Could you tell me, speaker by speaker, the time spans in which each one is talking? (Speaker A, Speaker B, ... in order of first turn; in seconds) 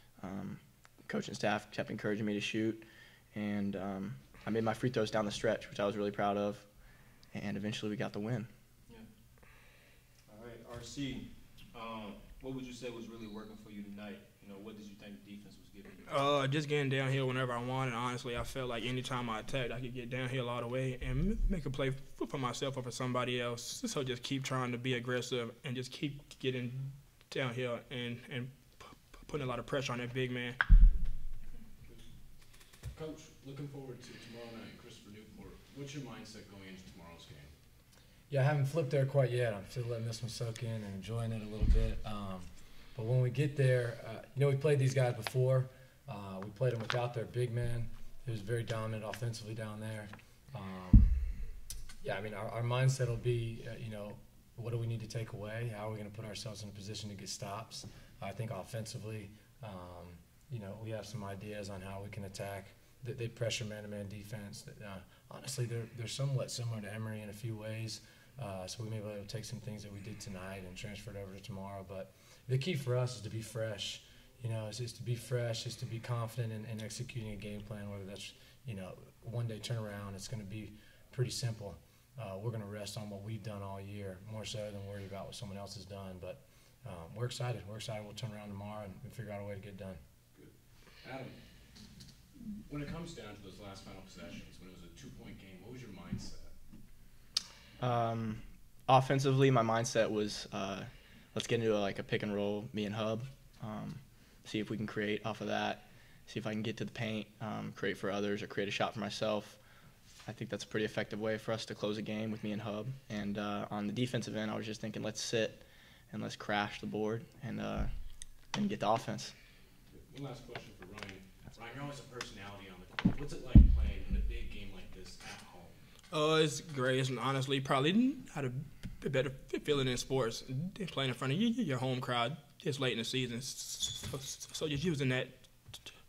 Speaker A: 0.2-6.7, 7.3-8.5, 97.8-109.6, 110.3-117.9, 118.5-119.3
Speaker B: 10.3-16.0
Speaker C: 16.1-30.6, 126.1-135.8
Speaker D: 32.9-37.5, 91.0-91.4, 92.7-96.5, 119.9-125.8
Speaker E: 38.3-51.1, 52.0-90.0